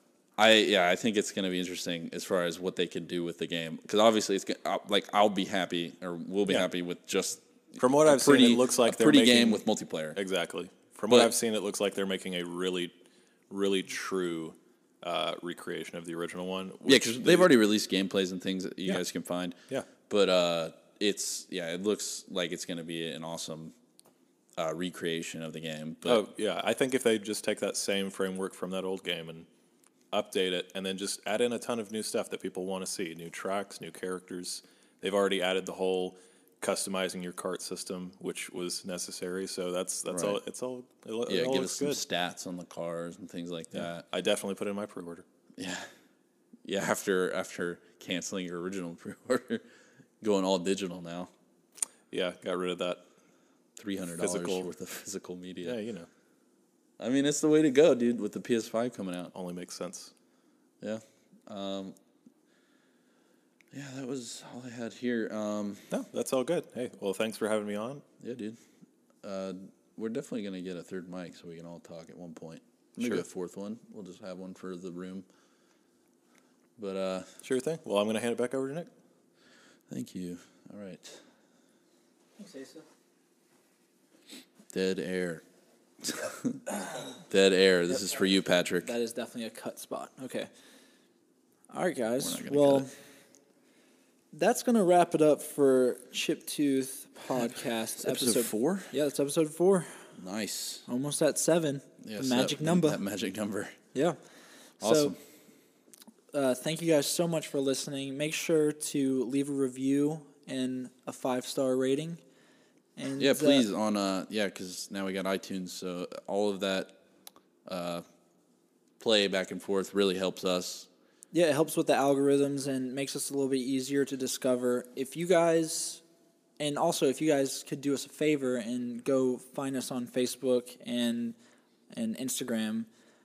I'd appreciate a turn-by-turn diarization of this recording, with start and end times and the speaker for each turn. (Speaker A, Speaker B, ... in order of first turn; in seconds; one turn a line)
Speaker A: 0.4-10.2
Speaker B: 7.8-9.6
Speaker B: 10.2-13.0
Speaker B: 13.5-17.5
Speaker A: 16.9-19.6
Speaker A: 20.1-23.8
Speaker A: 24.6-26.2
Speaker B: 26.1-29.5
Speaker B: 30.1-42.0
Speaker A: 40.1-40.4
Speaker A: 41.3-44.0
Speaker B: 43.7-45.2
Speaker A: 45.6-45.9
Speaker A: 46.6-49.6
Speaker A: 50.2-51.3
Speaker B: 52.1-53.0
Speaker A: 53.8-55.8
Speaker B: 54.2-54.7
Speaker B: 55.6-56.1
Speaker A: 57.0-59.3
Speaker B: 59.3-60.1
Speaker A: 60.8-62.0
Speaker A: 63.7-65.9
Speaker B: 65.9-68.0
Speaker A: 68.2-68.6
Speaker A: 69.2-75.3
Speaker A: 76.8-77.3
Speaker B: 77.4-78.9
Speaker A: 79.9-81.2
Speaker C: 82.4-82.8
Speaker A: 84.7-85.4
Speaker A: 86.0-86.6
Speaker A: 87.3-88.9
Speaker C: 88.8-90.5
Speaker C: 91.7-92.9
Speaker A: 92.2-92.9
Speaker C: 94.3-99.9
Speaker A: 98.0-98.9
Speaker A: 100.2-100.8
Speaker C: 100.9-103.0
Speaker A: 102.0-103.8
Speaker C: 104.8-105.1
Speaker A: 104.8-105.2
Speaker C: 106.3-112.2
Speaker C: 113.0-113.7
Speaker A: 113.2-117.0
Speaker A: 117.7-118.0
Speaker A: 119.0-120.9
Speaker C: 121.3-126.0
Speaker C: 126.6-131.4
Speaker C: 131.9-132.9